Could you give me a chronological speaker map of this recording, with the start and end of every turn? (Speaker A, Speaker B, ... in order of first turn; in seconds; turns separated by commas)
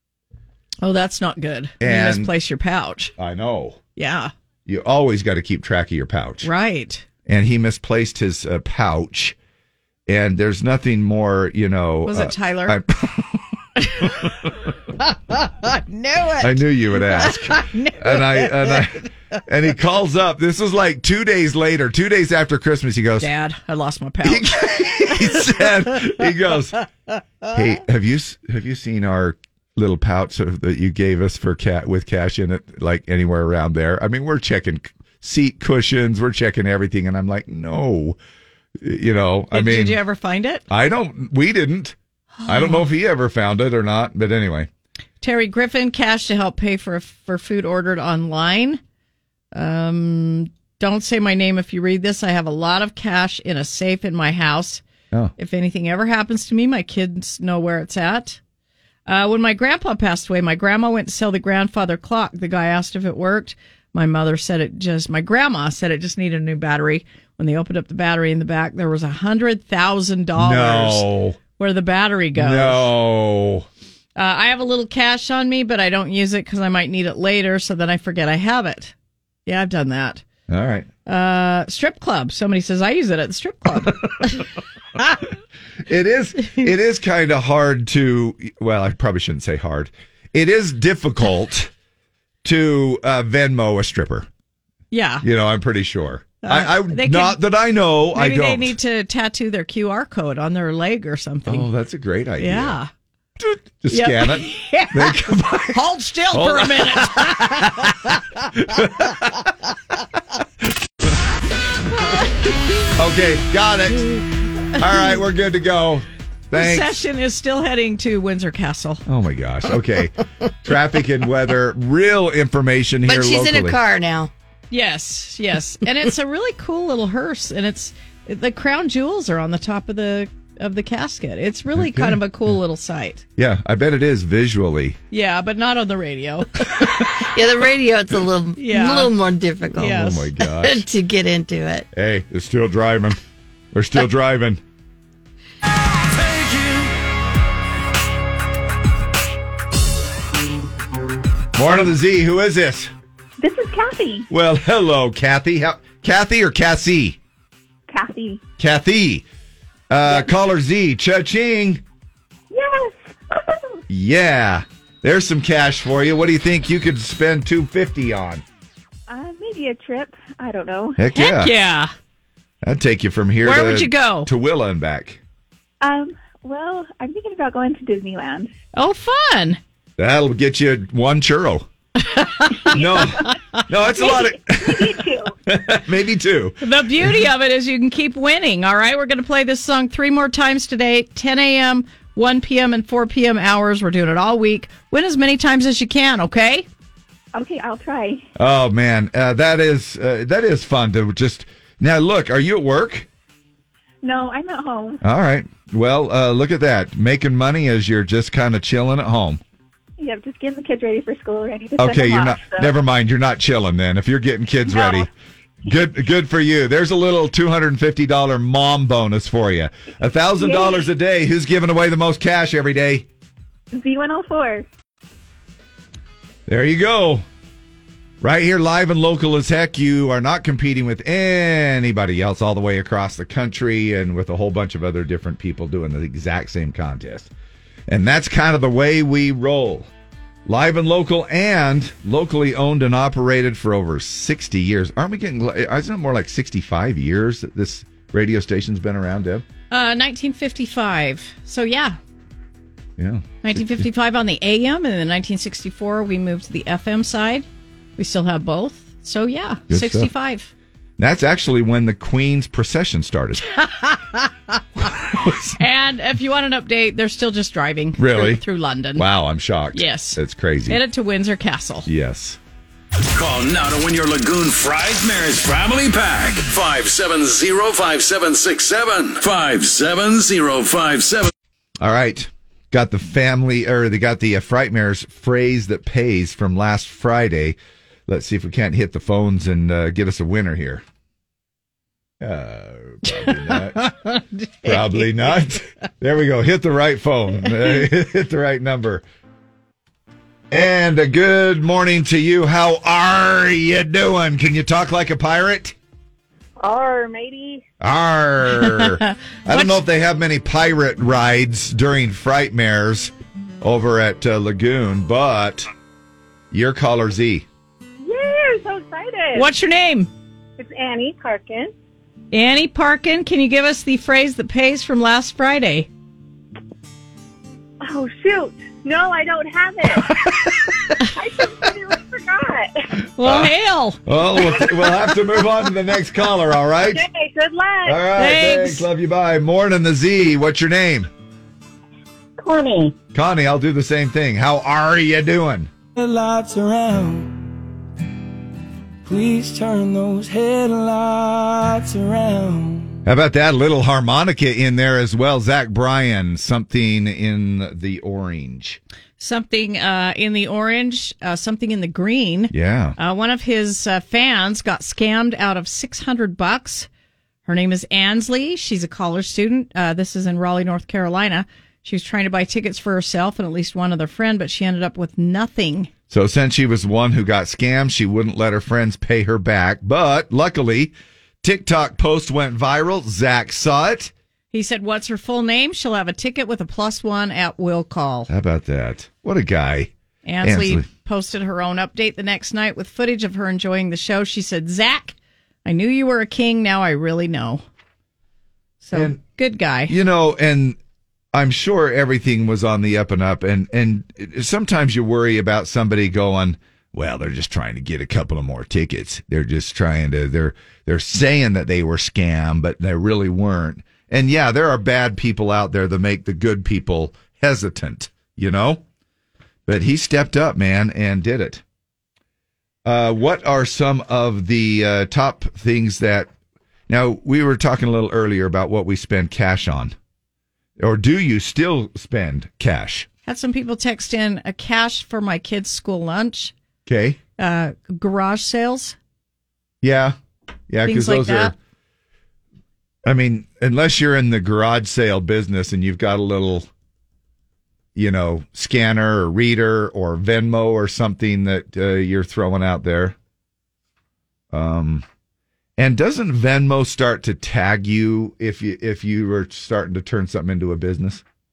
Speaker A: 0.8-3.1, Speaker B: 1.8-2.3, Speaker B: 3.2-3.8, Speaker A: 4.0-4.3, Speaker B: 4.7-6.5, Speaker A: 6.4-7.0, Speaker B: 7.2-9.3, Speaker B: 10.1-13.4, Speaker A: 12.1-12.8, Speaker A: 13.8-14.3, Speaker B: 14.2-14.5, Speaker A: 15.0-18.8, Speaker B: 16.4-23.3, Speaker A: 23.2-26.1, Speaker B: 24.2-26.8, Speaker B: 27.5-38.2, Speaker B: 38.8-40.0, Speaker A: 39.5-40.6, Speaker B: 40.7-41.9, Speaker A: 42.4-42.9, Speaker B: 42.5-44.7, Speaker A: 45.2-48.8, Speaker A: 49.5-54.8, Speaker A: 55.4-58.4, Speaker A: 59.0-71.0, Speaker B: 70.3-71.4, Speaker A: 71.6-72.9, Speaker B: 72.3-73.7, Speaker A: 74.2-78.9, Speaker A: 79.5-80.2, Speaker B: 80.5-80.9, Speaker A: 81.0-84.5, Speaker B: 85.8-91.7, Speaker B: 92.4-94.3, Speaker A: 94.9-95.2, Speaker B: 95.2-98.7, Speaker A: 96.4-97.4, Speaker A: 98.1-101.7, Speaker B: 101.5-102.8, Speaker A: 102.4-102.9, Speaker B: 103.4-109.5, Speaker A: 103.9-107.7, Speaker B: 112.9-114.2, Speaker B: 114.8-117.0, Speaker A: 116.5-119.0, Speaker B: 119.0-123.8, Speaker C: 123.0-124.3, Speaker A: 124.7-133.2, Speaker B: 131.7-132.2, Speaker B: 133.4-135.0, Speaker A: 135.1-137.0, Speaker C: 137.1-141.8, Speaker A: 138.5-139.1, Speaker A: 139.7-140.3, Speaker B: 139.8-140.8, Speaker B: 141.9-143.2, Speaker B: 143.7-144.6, Speaker B: 151.5-152.9, Speaker D: 153.4-154.2, Speaker B: 154.3-157.2, Speaker D: 157.9-158.4, Speaker B: 158.6-159.2, Speaker B: 159.9-161.8, Speaker E: 162.6-162.9, Speaker B: 163.9-168.4, Speaker D: 169.1-171.0, Speaker B: 171.0-171.6, Speaker A: 171.1-171.9, Speaker B: 172.6-175.2, Speaker A: 173.4-174.3, Speaker D: 175.8-178.5, Speaker A: 178.7-179.6, Speaker B: 180.0-181.7, Speaker A: 182.0-183.3, Speaker B: 182.7-187.2, Speaker D: 182.7-183.2, Speaker D: 183.8-185.3, Speaker A: 186.6-196.7, Speaker D: 197.3-198.2, Speaker B: 198.3-203.1, Speaker D: 204.0-205.0, Speaker B: 205.0-209.4, Speaker D: 210.0-212.8, Speaker B: 211.8-215.1, Speaker D: 214.7-215.1, Speaker B: 215.6-223.1, Speaker D: 220.4-220.9, Speaker D: 223.7-224.6, Speaker B: 226.5-227.2, Speaker B: 228.2-237.3, Speaker B: 237.9-239.9, Speaker B: 240.4-249.4, Speaker A: 249.7-252.0, Speaker B: 253.0-253.8, Speaker A: 253.4-257.4, Speaker A: 258.0-260.5, Speaker B: 259.7-260.1, Speaker B: 261.0-263.5, Speaker A: 263.6-264.6, Speaker B: 264.9-265.5, Speaker A: 265.6-269.1, Speaker B: 267.9-268.4, Speaker B: 268.9-270.8, Speaker A: 269.7-271.9, Speaker B: 271.9-272.4, Speaker F: 273.1-281.3, Speaker B: 281.8-290.8, Speaker B: 292.2-293.9, Speaker A: 293.0-295.4, Speaker B: 294.6-299.0, Speaker B: 300.5-305.8, Speaker E: 306.6-307.6, Speaker B: 307.8-315.7, Speaker A: 308.5-309.8, Speaker B: 316.5-317.4, Speaker E: 318.0-319.5, Speaker A: 319.3-320.1, Speaker E: 320.6-321.7, Speaker A: 322.3-325.9, Speaker E: 327.8-330.1, Speaker E: 331.1-332.7, Speaker A: 333.2-334.0, Speaker B: 333.2-333.5, Speaker B: 334.1-337.0, Speaker E: 336.9-338.0, Speaker B: 337.8-341.1, Speaker A: 338.1-338.9, Speaker E: 342.4-342.9, Speaker B: 343.1-345.7, Speaker G: 349.1-352.5, Speaker B: 353.0-358.8, Speaker A: 359.2-366.9, Speaker B: 362.5-362.9, Speaker A: 367.4-375.9, Speaker B: 376.1-384.1, Speaker A: 384.5-388.3, Speaker B: 388.3-390.9, Speaker A: 390.2-397.6, Speaker A: 398.8-399.9, Speaker B: 398.9-399.2, Speaker B: 399.9-400.8, Speaker B: 401.3-418.8, Speaker B: 419.6-421.6, Speaker B: 422.8-426.3, Speaker B: 426.9-429.9, Speaker B: 430.8-433.1, Speaker A: 433.2-436.5, Speaker B: 436.9-437.2, Speaker A: 437.4-439.0, Speaker B: 439.8-440.1, Speaker B: 440.7-441.5, Speaker A: 440.8-441.5, Speaker B: 443.0-446.7, Speaker B: 447.9-453.1, Speaker B: 454.5-455.0, Speaker B: 455.8-461.2